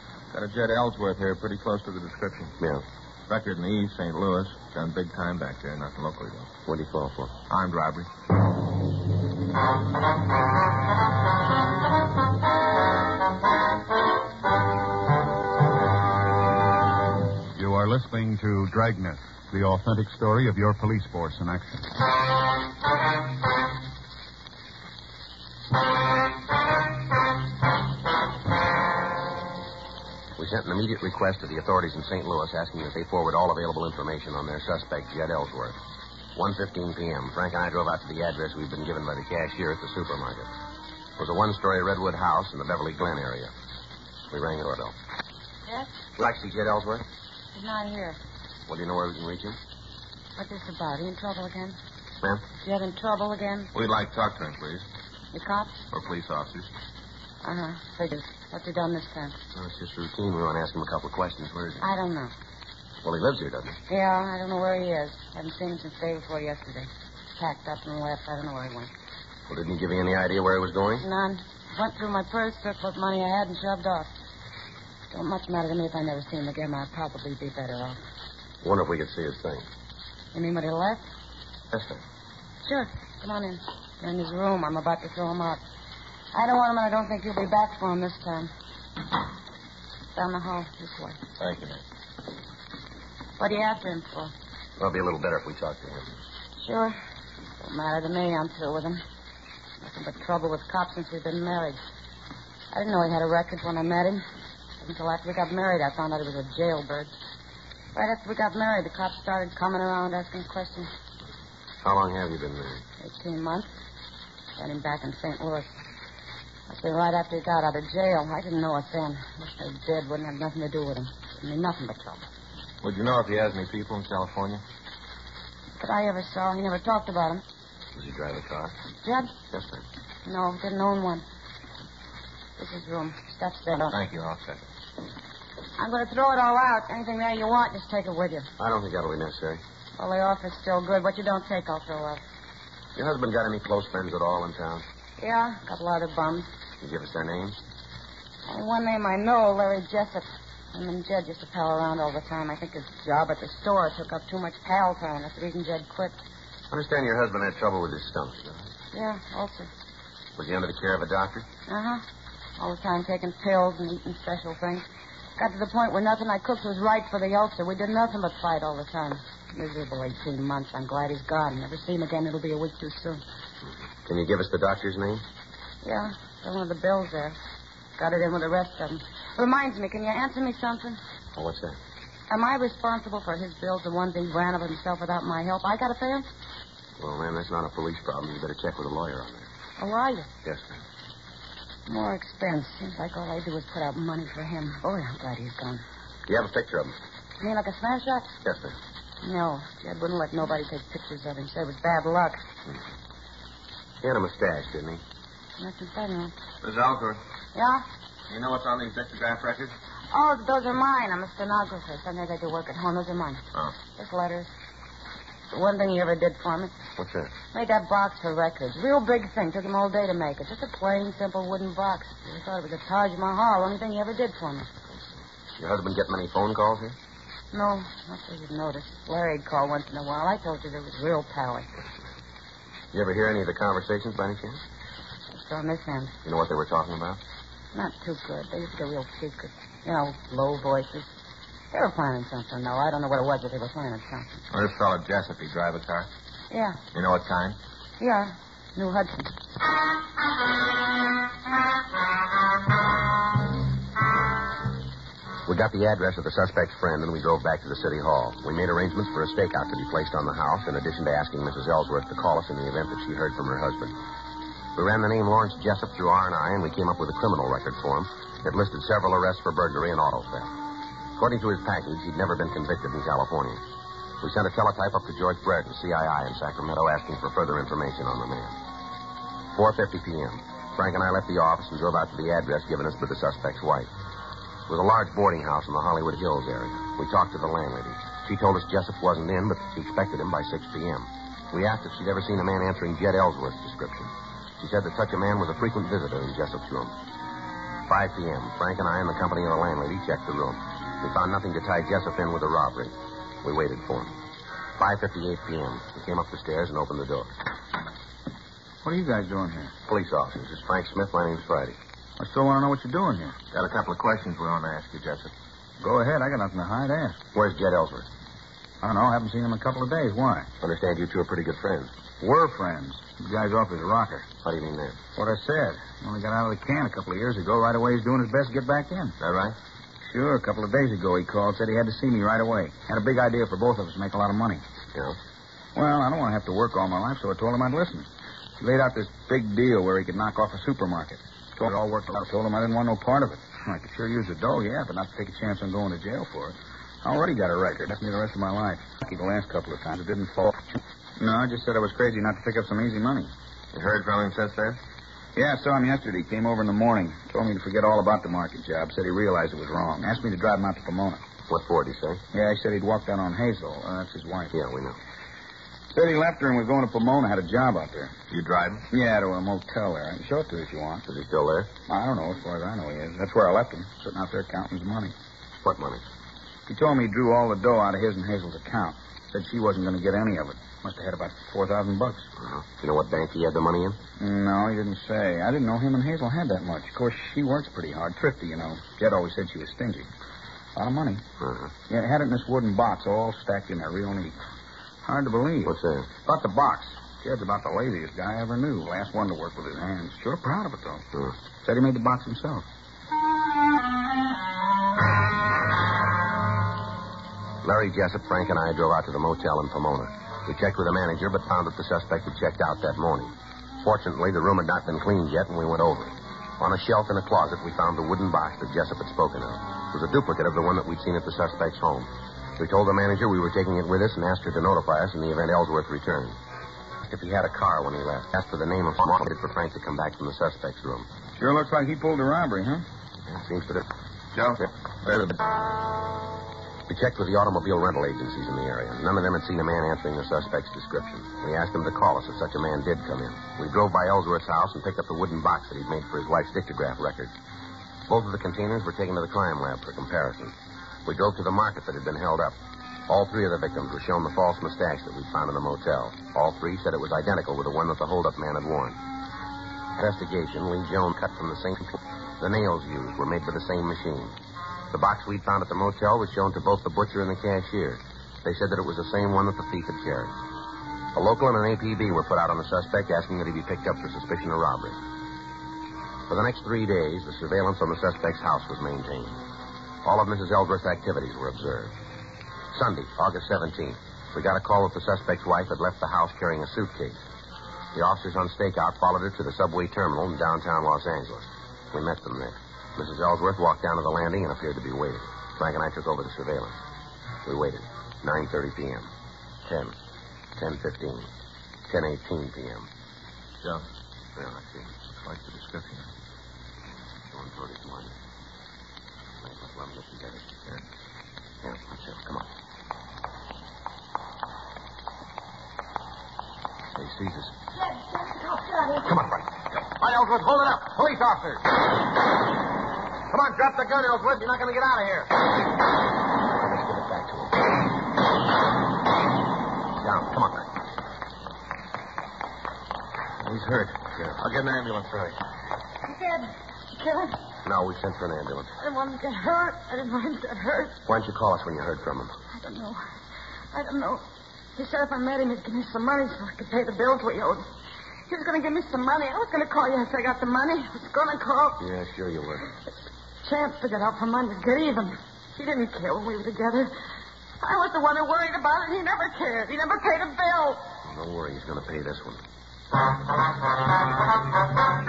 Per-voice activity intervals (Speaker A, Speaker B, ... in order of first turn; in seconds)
Speaker A: 0.3-2.5, 3.3-6.5, 7.5-8.1, 53.7-54.9, 55.9-56.7, 91.4-91.8, 122.8-124.6, 133.9-134.6, 206.6-207.2, 208.3-209.7, 244.5-246.1, 246.9-247.6, 313.5-315.3, 353.7-354.8, 368.3-368.9, 434.3-435.4, 505.2-506.1, 534.4-535.3
Speaker B: 6.7-7.3, 30.4-35.8, 36.3-40.5, 41.2-43.5, 44.3-44.9, 46.2-47.0, 48.7-49.6, 59.5-61.9, 63.0-63.8, 69.5-71.0, 78.6-79.7, 81.7-82.0, 94.8-96.1, 111.8-112.8, 127.9-128.8, 129.5-129.8, 138.6-139.6, 142.9-144.8, 146.8-147.6, 156.7-158.7, 160.3-161.4, 174.0-175.2, 181.3-181.8, 187.0-189.5, 190.4-190.8, 196.3-196.9, 198.4-198.8, 204.0-205.0, 217.0-217.3, 225.6-226.9, 232.9-234.6, 236.2-237.2, 255.4-263.9, 264.7-270.5, 271.2-273.6, 274.2-278.6, 279.5-283.9, 284.7-296.9, 297.9-304.1, 304.8-307.3, 309.9-311.8, 317.3-318.1, 320.6-321.9, 324.4-325.0, 329.2-329.5, 361.5-362.2, 364.5-365.0, 371.1-371.7, 375.6-376.0, 382.4-384.0, 391.4-391.7, 395.6-396.1, 407.6-426.4, 427.0-431.1, 433.3-433.9, 436.9-447.3, 448.1-450.5, 451.0-452.6, 453.1-459.0, 459.9-464.4, 464.9-470.4, 471.1-475.0, 476.3-479.4, 480.0-481.9, 482.7-487.2, 487.9-496.8, 497.4-499.1, 499.7-499.9, 500.6-501.3, 501.9-502.9, 504.4-504.9, 507.3-508.1, 509.4-510.5, 511.6-512.5, 517.0-517.5, 519.0-521.8, 523.3-525.3, 526.5-527.6, 530.0-530.7, 533.4-534.4, 537.6-538.7, 541.0-542.3, 551.8-552.7, 561.0-562.4
Speaker C: 17.5-21.9
Speaker D: 47.5-48.2, 50.4-51.8, 52.6-53.7, 55.3-55.8, 57.4-59.4, 61.8-62.3, 63.9-68.9, 71.0-74.1, 75.1-78.0, 80.3-81.0, 82.6-85.6, 86.3-88.5, 90.1-91.2, 93.4-94.3, 96.6-97.0, 97.6-99.0, 99.8-101.8, 102.7-104.2, 104.8-107.1, 107.9-110.9, 113.0-113.7, 114.6-115.7, 116.7-122.2, 125.8-127.4, 129.0-129.3, 130.2-131.2, 132.6-133.9, 135.8-138.5, 140.0-142.2, 145.2-146.5, 148.5-156.1, 158.9-159.7, 161.7-162.0, 162.6-164.8, 165.4-173.2, 175.8-177.4, 178.0-181.0, 182.3-186.2, 189.8-190.3, 191.9-195.8, 197.4-198.3, 199.2-202.4, 205.6-206.3, 207.5-207.8, 210.1-213.4, 213.9-214.5, 215.5-216.7, 217.5-224.7, 227.5-231.7, 235.3-236.1, 237.7-241.1, 241.7-244.3, 246.5-246.8, 248.0-249.3, 517.9-519.0, 536.0-537.4, 538.8-541.0, 542.5-543.0, 543.7-544.2, 544.8-547.7, 548.3-551.8, 553.4-556.9, 557.6-560.8
Speaker E: 308.8-309.7, 312.2-313.3, 315.8-317.2, 318.8-320.5, 322.2-324.2, 325.1-329.1, 330.1-334.6, 335.7-338.1, 338.6-353.3, 355.4-361.2, 362.3-364.5, 365.9-368.1, 368.9-371.0, 371.9-375.1, 376.7-382.3, 384.2-390.1, 390.8-391.2, 391.9-394.3, 395.0-395.7, 396.2-401.0, 401.6-402.6, 431.4-432.8